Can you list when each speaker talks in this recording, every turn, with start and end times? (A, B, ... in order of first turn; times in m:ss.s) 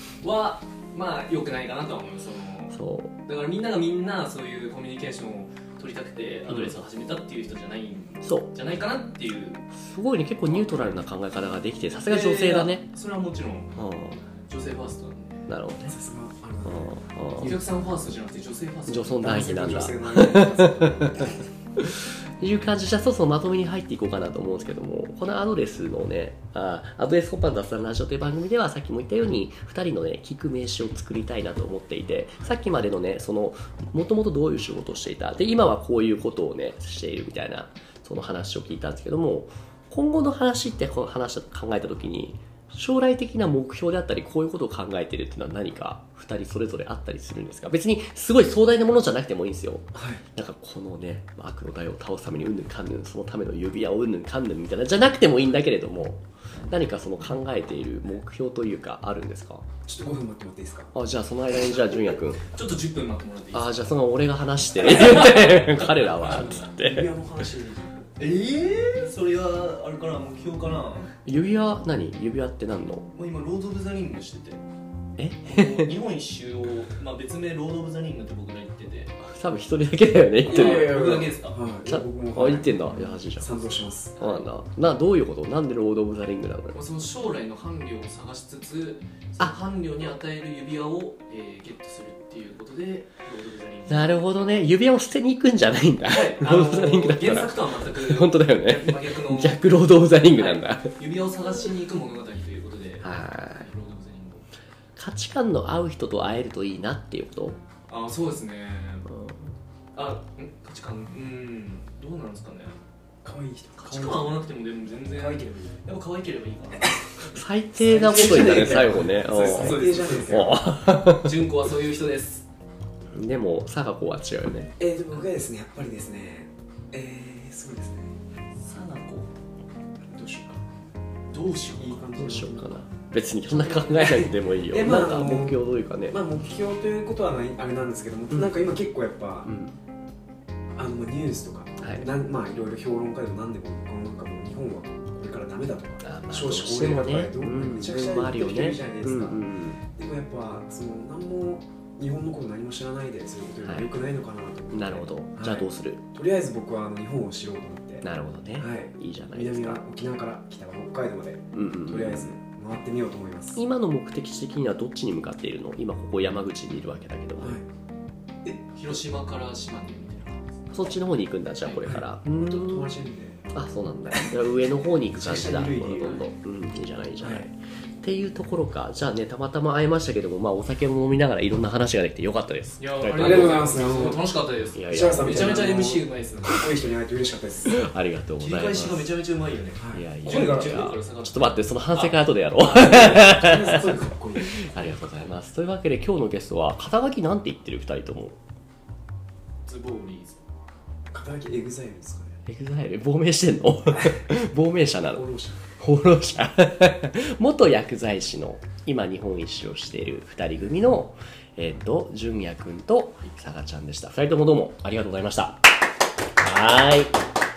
0:00.2-0:09.7 A
0:02.7-0:03.1 B
0:06.5-0:06.7 B
0:08.2-0:08.5 B
0:09.7-0:12.8 B
0:10.4-0:11.0 A
0:12.0-0:13.8 A
0:13.8-0:14.2 B
0:14.5-0:15.5 A
0:15.5-0:16.0 B
0:15.8-0:17.1 C
0:16.6-0:17.6 B
0:17.4-0:19.8 A
0:18.9-0:59.6 B
0:19.2-0:21.4 C
0:49.9-0:50.2 C
0:59.9-1:00.9 C
1:00.9-1:02.4 B
1:02.4-1:04.0 A
1:03.5-1:07.2 B
1:04.8-1:06.7 A
1:06.3-1:08.1 C
1:08.2-1:11.2 A
1:11.2-1:13.1 B
1:13.2-1:14.6 A
1:15.2-1:15.9 B
1:15.4-1:19.2 A
1:19.2-1:21.0 B
1:20.4-1:21.6 A
1:20.4-1:24.2 C
1:21.8-1:23.7 B
1:24.2-1:24.5 A
1:24.2-1:26.8 B
1:26.7-1:34.3 A
1:33.9-1:40.9 B
1:36.1-1:44.5 A
1:43.0-1:43.7 B
1:45.0-1:47.6 B
1:47.9-1:49.1 A
1:49.1-1:49.6 B
1:50.0-1:52.8 A
1:53.2-1:54.4 C
1:53.8-1:57.0 A
1:55.1-1:55.7 C
1:57.3-2:01.4 B
1:57.8-2:00.7 C
1:58.1-2:00.4 A
2:00.9-2:02.5 A
2:03.1-2:04.7 B
2:04.8-2:08.2 C
2:08.6-2:09.3 A
2:10.0-2:10.6 C
2:11.3-2:12.0 A
2:11.8-2:12.8 C
2:12.2-2:16.2 B
2:13.5-2:19.5 C
2:18.3-2:18.6 B
2:19.4-2:19.8 B
2:20.8-2:43.6 C
2:21.8-2:22.1 B
2:26.0-2:29.8 B
2:33.6-2:33.9 B
2:34.7-2:36.0 B
2:38.0-2:39.8 B
2:41.5-2:42.4 B
2:43.6-2:47.6 B
2:47.4-2:47.6 C
2:48.4-2:51.0 A
2:50.7-2:52.9 B
2:51.6-2:51.9 A
2:51.8-2:53.4 C
2:53.5-3:03.9 B
2:55.1-2:56.3 C
2:57.2-2:57.5 C
3:02.8-3:06.7 A
3:03.2-3:04.2 C
3:04.7-3:05.7 B
3:04.9-3:07.8 C
3:07.7-3:09.1 B
3:08.4-3:13.3 A
3:09.8-3:10.9 C
3:09.9-3:18.4 B
3:12.6-3:15.1 C
3:19.7-3:20.4 A
3:21.1-3:22.4 C
3:22.5-3:25.2 B
3:25.0-3:25.6 C
3:25.8-3:35.6 B
3:36.4-3:37.2 B